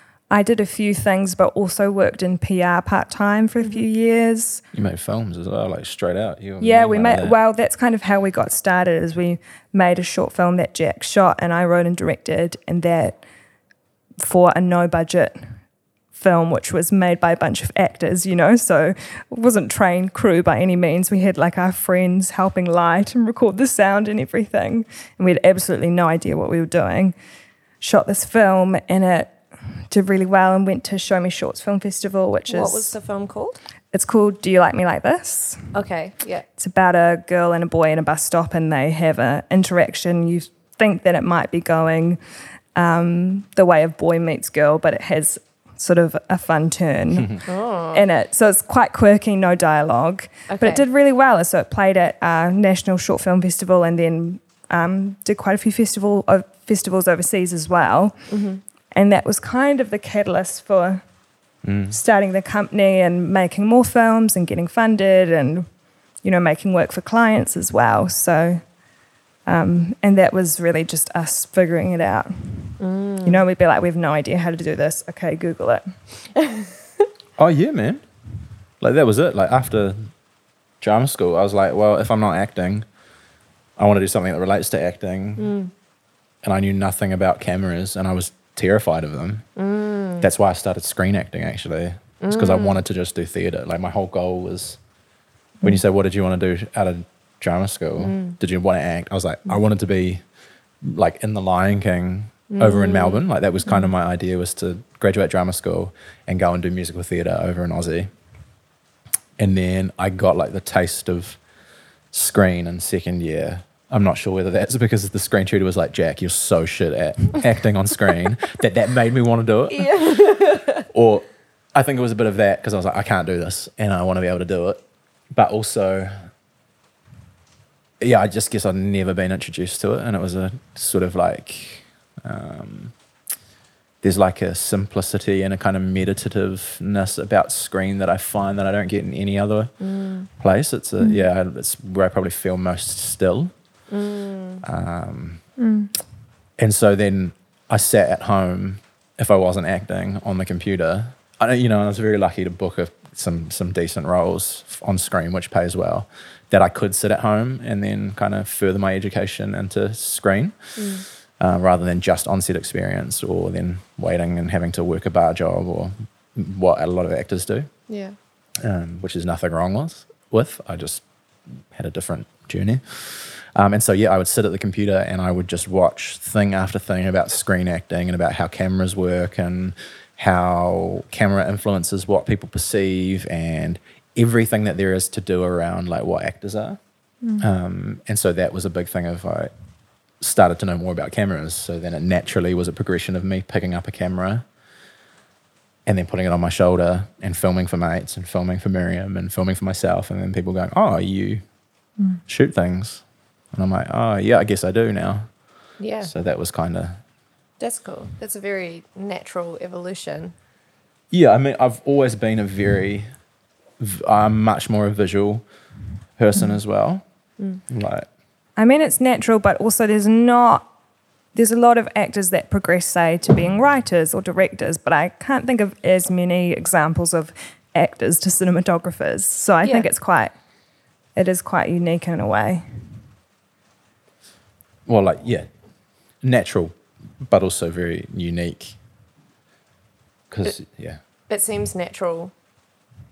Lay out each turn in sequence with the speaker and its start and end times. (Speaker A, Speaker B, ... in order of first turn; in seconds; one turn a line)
Speaker A: 0.3-4.6
Speaker B: 4.7-7.3
Speaker A: 6.6-13.2
Speaker A: 14.2-15.4
Speaker A: 16.1-27.1
Speaker A: 27.8-29.3
Speaker A: 29.9-32.9
Speaker C: 32.5-33.6
Speaker A: 33.9-35.7
Speaker C: 35.7-36.4
Speaker A: 36.6-42.2
Speaker A: 42.7-58.1
Speaker C: 47.4-48.0
Speaker C: 50.5-50.8
Speaker C: 58.3-58.6
Speaker A: 58.9-61.0
Speaker B: 61.6-62.0
Speaker A: 61.9-65.7
Speaker A: 66.2-68.6
Speaker A: 69.5-75.8
Speaker C: 72.8-73.4
Speaker C: 76.4-76.7
Speaker B: 77.4-78.0
Speaker B: 78.8-80.1
Speaker B: 80.8-82.8
Speaker B: 83.8-85.5
Speaker C: 85.4-85.7
Speaker B: 86.4-89.5
Speaker C: 89.6-90.3
Speaker B: 90.2-94.8
Speaker C: 92.2-92.8
Speaker B: 95.6-100.2
Speaker C: 98.0-98.4
Speaker B: 100.8-108.1
Speaker C: 102.5-103.2
Speaker B: 109.4-111.4
Speaker B: 112.1-120.2
Speaker C: 119.7-120.8
Speaker B: 120.9-126.1
Speaker B: 128.0-132.9
Speaker B: 134.0-139.7
Speaker C: 139.8-140.3
Speaker B: 140.4-143.5
Speaker A: 141.0-141.2
Speaker C: 143.9-144.6
Speaker B: 144.6-145.4
Speaker A: 145.6-145.9
Speaker B: 146.6-160.6
Speaker C: 160.8-161.0
Speaker B: 161.4-167.7
Speaker C: 167.9-168.2
Speaker B: 168.6-171.0
Speaker B: 171.7-186.8
Speaker B: 187.4-189.5
Speaker B: 190.2-194.4
Speaker B: 195.8-201.4
Speaker B: 202.3-205.3
Speaker C: 205.8-206.1
Speaker B: 206.0-207.0
Speaker C: 207.6-210.3
Speaker B: 211.1-213.1
Speaker B: 213.8-215.4
Speaker B: 216.2-217.0
Speaker B: 217.7-218.1
Speaker A: 218.6-220.7
Speaker A: 221.3-230.3
Speaker C: 229.6-229.9
Speaker A: 231.2-232.6
Speaker B: 234.9-235.5
Speaker B: 236.2-238.8
Speaker B: 240.3-241.0
Speaker C: 241.3-242.3